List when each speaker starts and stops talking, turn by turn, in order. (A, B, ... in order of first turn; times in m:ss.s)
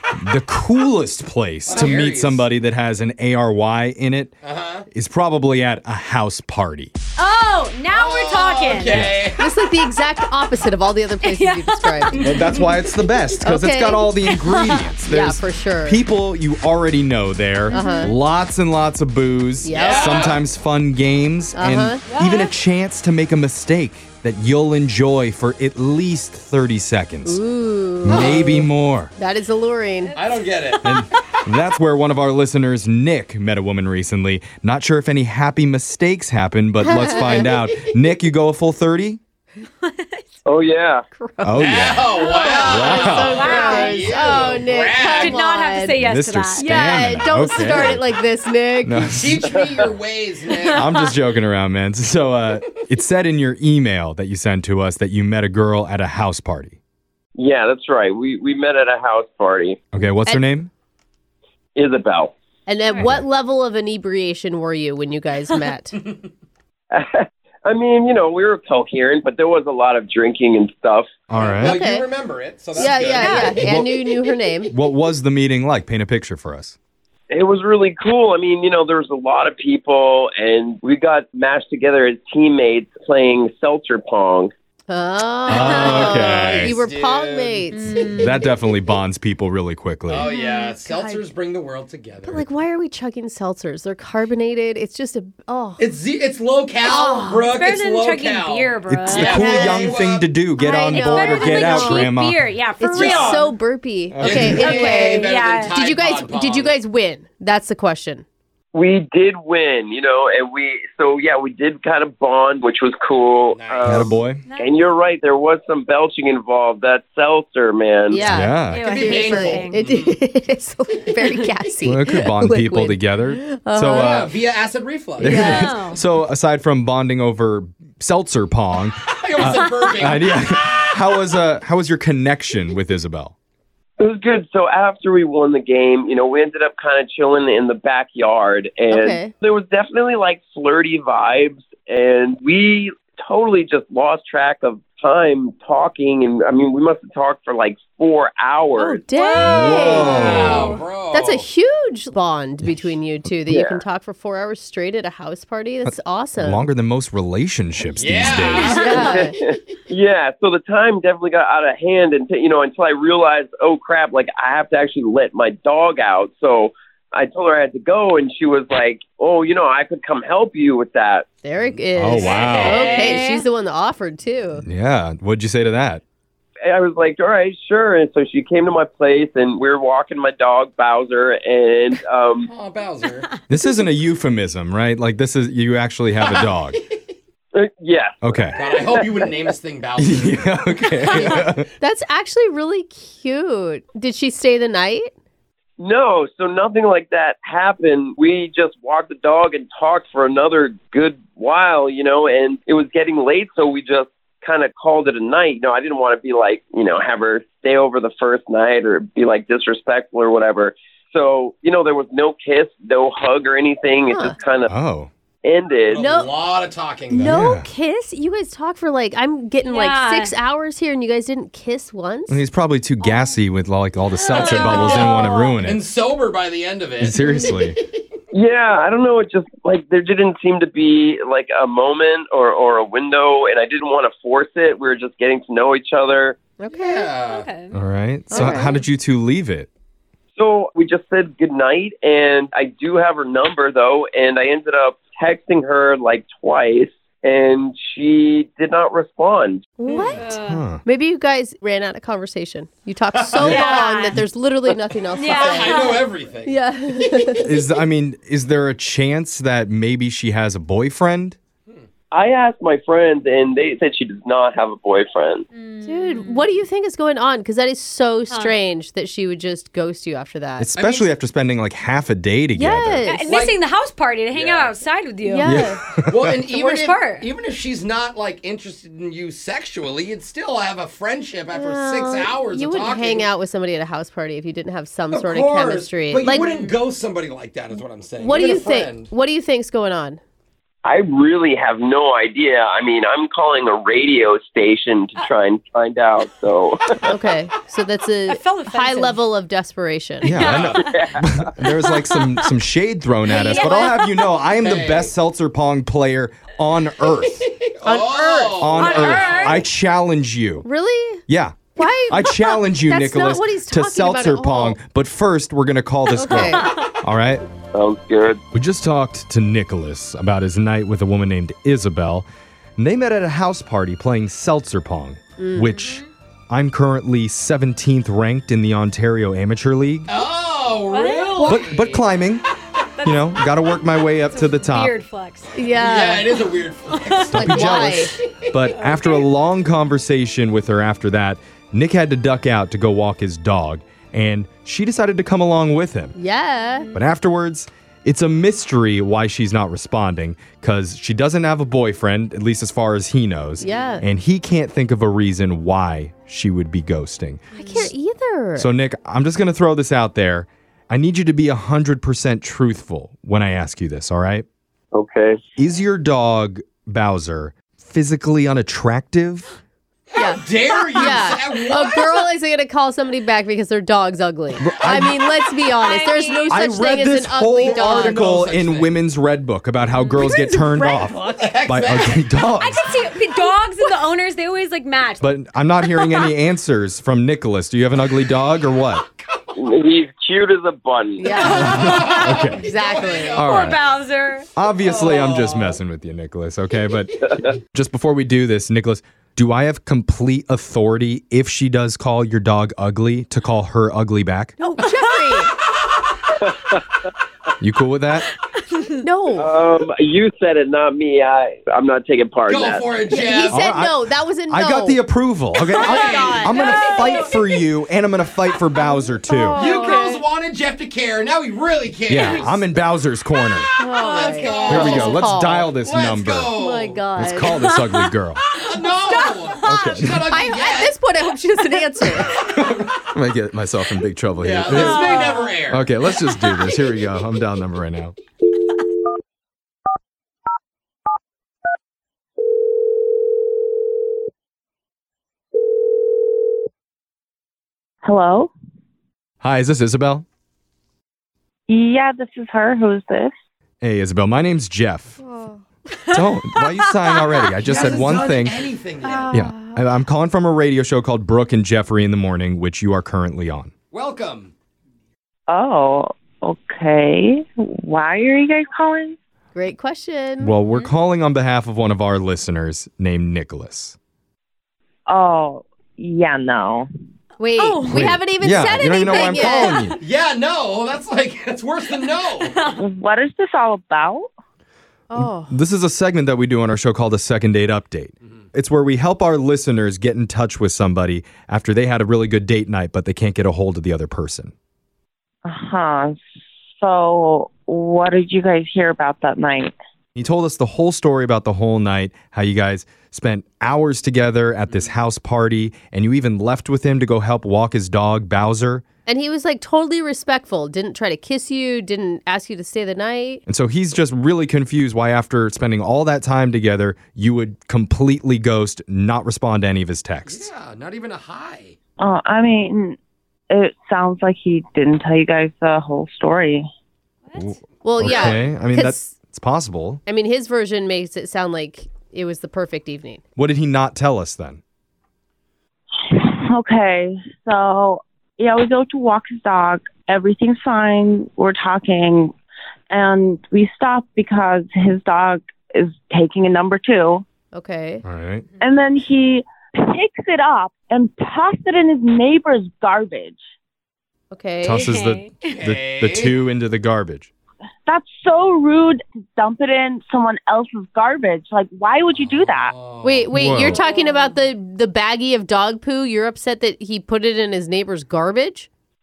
0:00.1-0:04.3 A
0:01.6-0:02.5 B
0:04.4-0:04.8 B
0:04.9-0:06.9 A
0:07.2-0:09.1 C
0:07.9-0:09.5 B
0:08.9-0:09.2 A
0:09.4-0:12.2 D
0:11.2-0:12.3 C
0:12.2-0:27.4 A
0:12.2-0:12.9 B
0:13.4-0:14.1 D
0:14.2-0:14.8 C
0:15.0-0:16.0 D
0:17.7-0:18.1 C
0:17.7-0:18.1 D
0:19.6-0:20.3 D
0:19.7-0:20.4 B
0:21.5-0:22.0 D
0:22.1-0:22.5 C
0:27.2-0:28.3 D
0:28.0-0:29.1 A
0:28.1-0:28.6 B
0:29.2-0:30.2 D
0:30.1-0:30.9 B
0:30.8-0:39.2 A
0:36.8-0:37.5 D
0:39.8-0:40.2 C
0:40.4-0:41.0 E
0:41.1-0:49.0 D
0:41.4-0:42.1 A
0:41.6-0:45.4 B
0:42.3-0:44.4 C
0:42.6-0:43.6 A
0:45.0-0:47.1 C
0:46.0-0:48.0 A
0:47.5-0:47.9 B
0:48.8-0:49.5 A
0:49.0-0:50.9 B
0:50.5-0:50.9 C
0:50.7-0:56.8 A
0:57.4-0:59.8 E
0:59.9-1:00.7 A
1:01.8-1:02.3 E
1:02.7-1:06.0 D
1:03.0-1:03.2 A
1:06.9-1:11.2 E
1:11.3-1:11.8 A
1:11.3-1:13.8 B
1:11.6-1:12.1 D
1:12.7-1:14.7 D
1:13.1-1:13.6 C
1:13.4-1:13.9 A
1:14.7-1:16.8 A
1:17.3-1:24.5 E
1:24.9-1:28.0 D
1:25.5-1:26.1 C
1:25.5-1:27.7 B
1:25.5-1:26.8 A
1:27.7-1:28.5 C
1:28.1-1:30.3 A
1:30.1-1:32.5 B
1:30.2-1:30.5 C
1:30.4-1:31.2 D
1:32.2-1:35.8 D
1:35.8-1:40.3 B
1:36.8-1:37.5 D
1:37.5-1:39.9 C
1:38.9-1:42.4 A
1:39.4-1:39.8 D
1:40.6-1:42.1 D
1:40.9-1:43.4 C
1:42.8-1:48.2 D
1:42.9-1:43.6 B
1:44.1-1:44.7 A
1:44.2-1:46.8 B
1:44.5-1:45.8 C
1:48.7-1:58.2 E
1:53.5-1:54.2 B
1:53.8-1:54.4 A
1:54.4-1:54.7 C
1:58.1-2:04.3 D
1:58.2-1:58.8 A
1:58.2-2:00.2 B
1:58.7-1:59.8 C
2:01.8-2:04.3 A
2:03.9-2:05.8 B
2:05.2-2:05.6 D
2:05.2-2:13.3 A
2:05.4-2:06.0 C
2:09.0-2:11.0 B
2:14.0-2:29.0 E
2:18.9-2:19.4 D
2:28.8-2:36.6 D
2:29.1-2:30.8 C
2:29.4-2:30.8 A
2:29.4-2:31.4 B
2:33.5-2:33.8 E
2:35.8-2:39.1 A
2:38.0-2:39.4 B
2:38.3-2:39.3 C
2:38.8-2:39.4 D
2:39.0-2:51.4 E
2:51.4-2:54.6 D
2:51.6-2:53.2 B
2:51.9-2:52.9 A
2:52.1-2:53.4 C
2:54.6-2:56.0 A
2:56.6-3:02.5 E
3:02.4-3:03.3 B
3:03.5-3:06.8 A
3:06.2-3:06.5 B
3:07.5-3:09.1 E
3:08.2-3:08.6 A
3:08.5-3:11.6 B
3:10.0-3:11.7 A
3:11.1-3:11.3 C
3:11.8-3:15.1 D
3:15.8-3:34.7 E
3:34.1-3:34.4 D
3:34.7-3:35.1 A
3:35.4-3:36.0 E
3:35.9-3:37.4 B
3:36.0-3:36.3 D
3:37.1-3:42.4 D
3:37.2-3:37.7 A
3:39.6-3:40.3 C
3:42.3-3:45.8 A
3:43.0-3:43.3 C
3:44.1-3:45.6 C
3:44.3-3:47.9 B
3:47.0-3:47.8 A
3:48.3-3:56.4 E
3:56.6-3:57.1 D
3:56.7-3:57.5 B
3:57.2-3:57.8 C
3:57.7-3:59.7 A
3:58.3-3:58.7 D
4:00.3-4:09.7 E
4:09.8-4:17.5 D
4:09.9-4:10.2 B
4:10.1-4:10.6 C
4:10.4-4:10.8 A
4:13.1-4:13.8 B
4:13.4-4:14.2 C
4:14.7-4:17.5 B
4:15.2-4:16.0 C
4:17.4-4:21.4 A
4:22.1-4:25.4 E
4:25.5-4:26.5 C
4:25.8-4:30.7 D
4:28.3-4:28.6 C
4:30.6-4:33.0 A
4:30.8-4:31.1 B
4:32.6-4:33.3 D
4:33.0-4:35.5 C
4:33.3-4:33.6 B
4:34.3-4:34.8 B
4:35.2-4:35.8 D
4:35.4-4:36.4 A
4:35.5-4:43.3 B
4:36.4-4:37.3 C
4:41.5-4:46.5 D
4:45.1-4:49.1 B
4:46.2-4:46.8 C
4:47.8-4:50.2 D
4:50.8-4:56.9 E
4:57.1-5:00.4 D
4:58.2-4:59.2 C
5:00.2-5:07.5 A
5:00.2-5:01.1 C
5:00.5-5:00.8 B
5:00.5-5:01.4 E
5:03.2-5:04.3 C
5:04.6-5:05.1 B
5:07.4-5:09.6 B
5:07.8-5:08.6 D
5:08.6-5:10.6 A
5:08.6-5:09.7 C
5:10.6-5:11.2 D
5:11.3-5:17.4 A
5:11.8-5:14.8 D
5:16.2-5:16.7 D
5:16.3-5:16.8 C
5:17.7-5:18.4 E
5:18.5-5:22.3 A
5:22.8-5:30.1 A
5:25.4-5:25.8 D
5:25.7-5:26.1 C
5:30.1-5:32.0 B
5:30.9-5:31.6 C
5:31.4-5:32.4 A
5:33.0-5:35.5 C
5:33.0-5:34.9 A
5:35.5-5:36.3 D
5:35.7-5:38.3 B
5:36.4-5:37.8 C
5:37.2-5:46.2 A
5:37.4-5:38.1 D
5:38.8-5:39.2 C
5:46.2-5:46.9 D
5:46.7-5:46.9 C
5:46.9-5:57.9 A
5:53.6-5:54.0 D
5:57.5-5:58.7 D
5:57.6-5:57.9 C
5:58.6-6:04.4 A
6:04.9-6:05.4 E
6:05.6-6:09.5 A
6:10.1-6:12.3 B
6:10.2-6:18.3 D
6:14.6-6:15.1 A
6:14.8-6:15.1 B
6:15.8-6:16.6 C
6:16.5-6:22.9 A
6:17.6-6:18.9 B
6:19.9-6:20.3 C
6:20.2-6:21.1 D
6:21.2-6:22.4 B
6:22.6-6:25.2 C
6:23.4-6:24.0 D
6:25.2-6:29.0 A
6:29.2-6:29.7 B
6:29.6-6:31.3 E
6:31.2-6:33.4 D
6:31.3-6:32.5 C
6:31.4-6:33.7 B
6:31.5-6:32.7 A
6:33.3-6:33.8 A
6:33.4-6:34.5 C
6:34.6-6:44.6 A
6:34.8-6:35.8 B
6:44.6-6:45.5 D
6:44.8-6:45.5 C
6:47.6-6:48.3 A
6:48.5-6:49.0 C
6:49.0-6:49.6 D
6:49.4-6:52.8 E
6:52.5-6:53.7 B
6:53.0-6:55.0 D
6:53.5-6:59.6 A
6:55.6-6:57.6 C
6:55.7-6:57.1 B
6:58.8-7:00.2 D
6:59.5-7:02.6 B
7:02.1-7:03.7 A
7:02.2-7:02.5 C
7:03.8-7:05.7 D
7:03.8-7:07.0 B
7:04.3-7:05.0 C
7:04.7-7:06.5 A
7:06.6-7:07.6 D
7:07.2-7:08.5 A
7:08.5-7:11.0 B
7:08.7-7:09.8 C
7:09.6-7:10.2 A
7:10.2-7:12.4 D
7:12.0-7:13.0 B
7:13.1-7:18.1 A
7:14.4-7:15.9 B
7:14.7-7:15.6 C
7:28.0-7:28.5 F
7:29.4-7:30.2 A
7:31.7-7:33.3 F
7:33.8-7:35.2 A
7:35.2-7:35.6 D
7:36.1-7:38.6 A
7:37.6-7:39.4 B
7:39.0-7:39.8 D
7:39.3-7:43.7 A
7:43.9-7:44.5 B
7:45.5-7:49.2 F
7:49.5-7:50.5 D
7:50.4-7:54.0 A
7:55.1-7:56.9 F
7:57.4-7:59.9 D
7:57.6-7:57.9 C
7:57.9-8:00.0 A
7:58.6-7:59.9 C
7:59.2-8:02.7 B
8:02.0-8:02.8 C
8:02.8-8:04.3 F
8:05.1-8:05.5 D
8:05.1-8:14.5 A
8:15.4-8:16.2 F
8:16.8-8:19.8 F
8:20.1-8:28.8 A
8:24.7-8:25.0 B
8:29.0-8:33.4 D
8:33.4-8:40.5 A
8:40.2-8:41.8 B
8:42.0-8:43.0 F
8:43.5-8:46.7 F
8:47.2-8:47.6 C
8:47.4-8:50.0 A
8:47.8-8:49.1 D
8:48.0-8:48.4 B
8:50.0-8:53.2 D
8:53.4-8:54.6 A
8:56.0-9:02.3 F
9:02.9-9:07.2 F
9:07.5-9:08.0 D
9:08.0-9:08.4 A
9:08.6-9:13.4 F
9:14.3-9:14.9 D
9:14.6-9:17.3 A
9:14.8-9:15.3 C
9:15.5-9:16.4 B
9:17.8-9:22.7 F
9:22.2-9:23.8 B
9:23.0-9:28.7 D
9:23.3-9:23.8 A
9:23.9-9:24.4 F